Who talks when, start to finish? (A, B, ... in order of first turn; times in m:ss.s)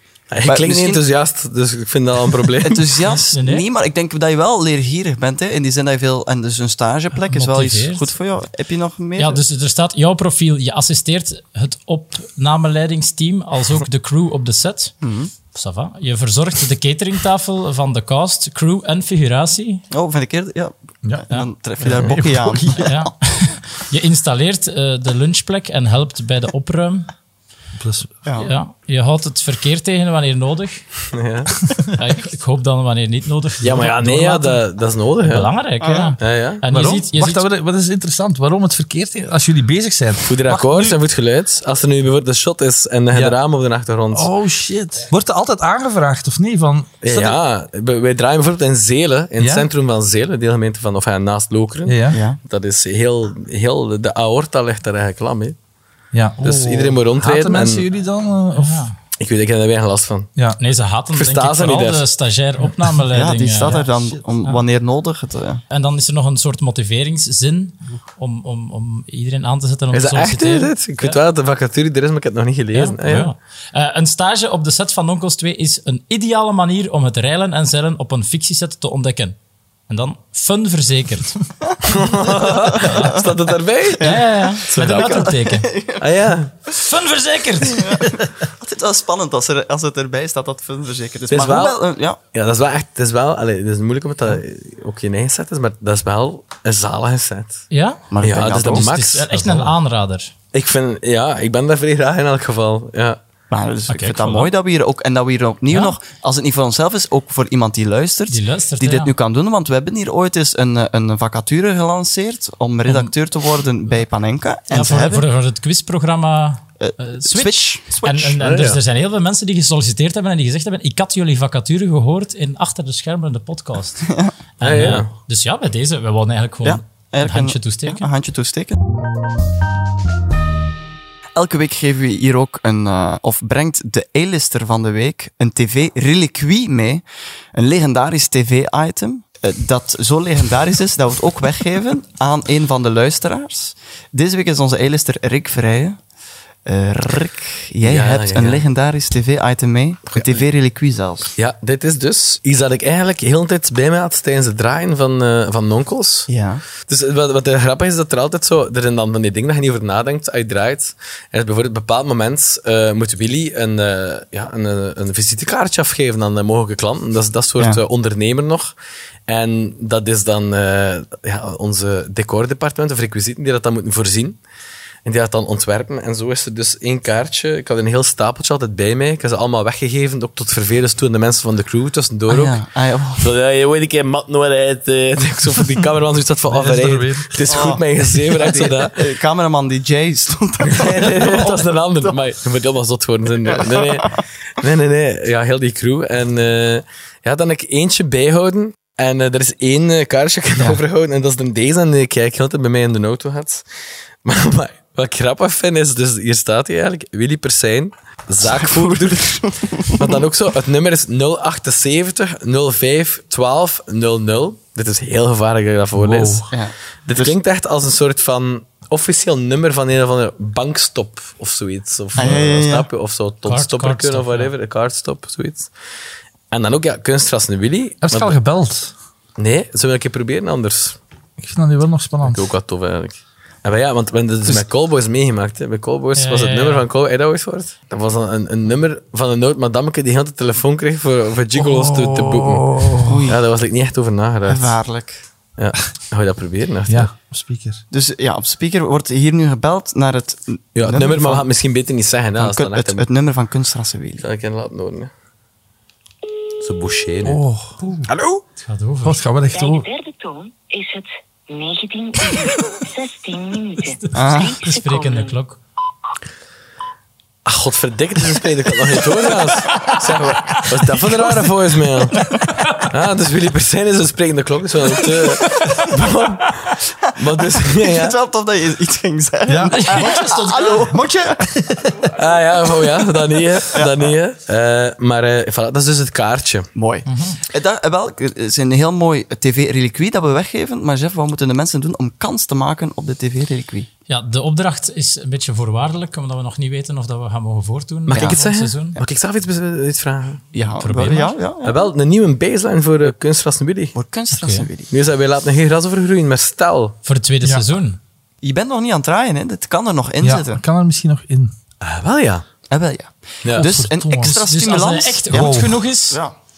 0:00.3-0:02.9 A
0:00.4-0:01.0 B
0:02.6-0:09.4 B
0:03.2-0:03.7 C
0:07.3-0:08.1 C
0:09.2-0:15.0 C
0:15.0-0:15.3 B
0:15.5-0:19.8 C
0:19.9-0:23.1 B
0:21.8-0:22.9 D
0:22.8-0:27.1 C
0:27.8-0:28.2 D
0:28.2-0:28.5 B
0:28.4-0:31.0 C
0:31.1-0:31.5 A
0:32.0-0:34.6 C
0:33.6-0:35.5 A
0:35.2-0:37.4 C
0:35.8-0:36.2 B
0:36.2-0:36.6 A
0:36.7-0:41.0 D
0:40.2-0:44.3 A
0:43.1-0:43.4 D
0:44.1-0:47.4 D
0:47.0-0:55.6 A
0:49.4-0:49.7 D
0:51.9-0:52.2 D
0:52.1-0:52.4 B
0:56.1-0:58.9 D
0:56.4-0:57.8 A
0:58.6-0:59.0 C
0:59.2-1:00.3 A
1:00.6-1:03.9 C
1:01.1-1:02.1 A
1:03.1-1:05.6 B
1:05.7-1:11.2 C
1:09.9-1:13.3 A
1:12.7-1:19.4 C
1:19.9-1:21.4 C
1:21.9-1:25.4 A
1:22.5-1:23.2 B
1:22.7-1:23.2 C
1:24.0-1:26.0 B
1:24.0-1:25.7 C
1:26.0-1:26.6 A
1:26.7-1:28.1 C
1:27.7-1:32.2 B
1:31.3-1:37.7 A
1:37.7-1:38.0 C
1:38.1-1:39.0 B
1:38.2-1:39.7 A
1:38.7-1:40.3 C
1:40.5-1:43.2 A
1:43.5-1:55.3 B
1:43.9-1:44.5 C
1:48.3-1:49.1 C
1:54.7-2:08.1 C
1:56.8-1:58.4 B
1:58.4-1:58.8 A
2:04.1-2:04.4 B
2:04.6-2:05.1 A
2:06.6-2:08.8 B
2:11.4-2:26.0 B
2:26.7-2:31.3 B
2:27.8-2:28.6 A
2:31.4-2:36.3 A
2:36.3-2:36.6 B
2:36.8-2:48.7 A
2:49.3-2:54.4 A
2:55.0-3:02.6 A
3:02.3-3:03.2 B
3:03.2-3:09.0 A
3:06.5-3:07.7 D
3:07.5-3:12.1 B
3:10.7-3:23.6 A
3:13.8-3:14.0 B
3:24.2-3:36.5 A
3:28.4-3:30.2 B
3:36.0-3:36.5 D
3:36.5-3:37.3 B
3:37.1-3:45.7 A
3:42.2-3:42.9 B
3:43.5-3:44.5 C
3:46.5-3:48.4 A
3:48.0-3:48.9 D
3:49.4-3:51.0 A
3:51.4-3:52.4 D
3:52.2-4:04.8 A
3:56.2-3:56.8 C
4:01.6-4:03.2 D
4:03.0-4:03.4 B
4:04.5-4:05.2 B
4:05.6-4:07.1 A
4:06.9-4:07.8 D
4:07.9-4:11.4 B
4:10.8-4:13.1 A
4:12.4-4:14.2 B
4:14.2-4:15.1 A
4:16.6-4:17.4 A
4:17.2-4:18.0 D
4:18.1-4:18.4 A
4:18.6-4:19.2 C
4:19.0-4:19.9 D
4:19.5-4:25.4 E
4:24.1-4:25.6 C
4:24.1-4:24.6 B
4:27.4-4:38.2 A
4:29.4-4:31.2 C
4:32.2-4:32.8 C
4:37.0-4:41.5 B
4:39.5-4:40.0 D
4:39.7-4:41.0 C
4:41.5-4:42.1 D
4:42.1-4:46.7 A
4:43.7-4:44.1 B
4:46.8-4:53.9 B
4:47.1-4:47.4 C
4:54.1-4:59.0 C
4:58.1-5:00.4 A
5:00.5-5:01.9 B
5:00.8-5:01.4 C
5:01.6-5:03.9 A
5:03.9-5:04.9 B
5:04.3-5:04.7 C
5:04.9-5:07.0 A
5:07.0-5:08.0 C
5:08.4-5:10.6 B
5:10.2-5:11.5 D
5:11.8-5:12.4 A
5:12.7-5:16.3 B
5:13.5-5:14.4 D
5:14.2-5:16.2 C
5:15.3-5:15.8 D